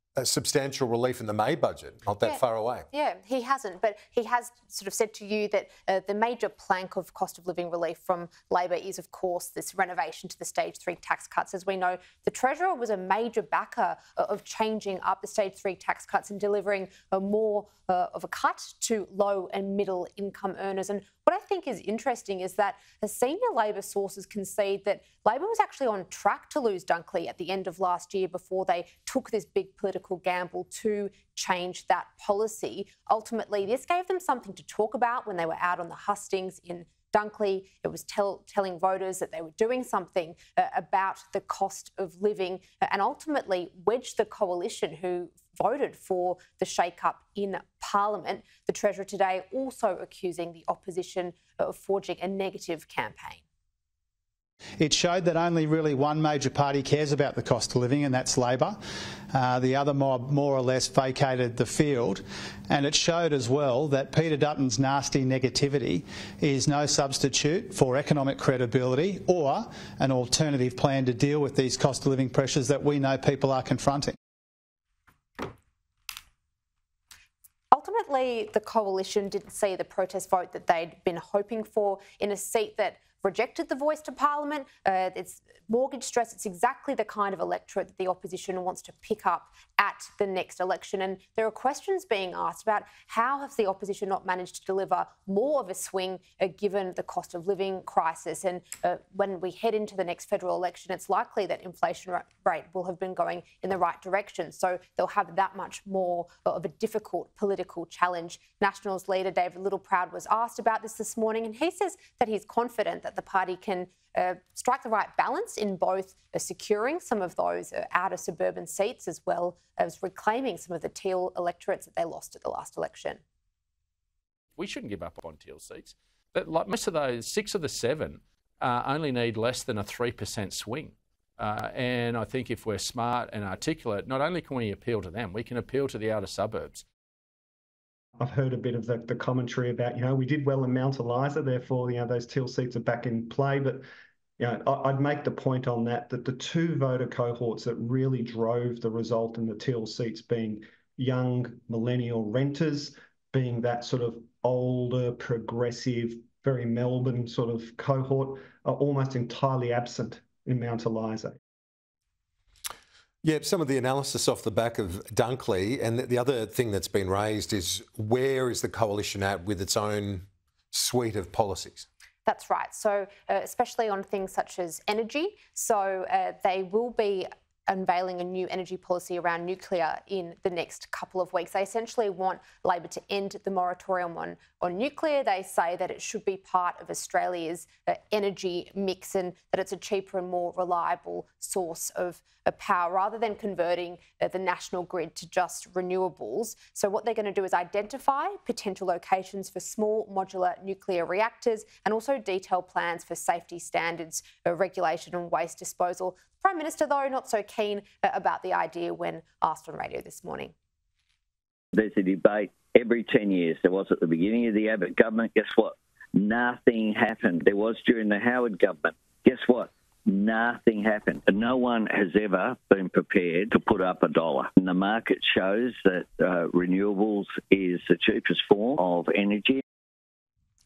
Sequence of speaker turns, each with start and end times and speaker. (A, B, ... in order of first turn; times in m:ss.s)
0:00.2-0:02.9 A
0:02.2-0:53.4 B
0:54.8-0:58.8 C
0:59.3-1:14.1 C
1:17.7-2:03.2 B
2:04.6-2:16.8 D
2:18.2-2:23.8 E
2:24.4-2:41.4 E
2:43.2-2:51.8 A
2:52.2-3:30.5 B
3:31.7-3:49.6 F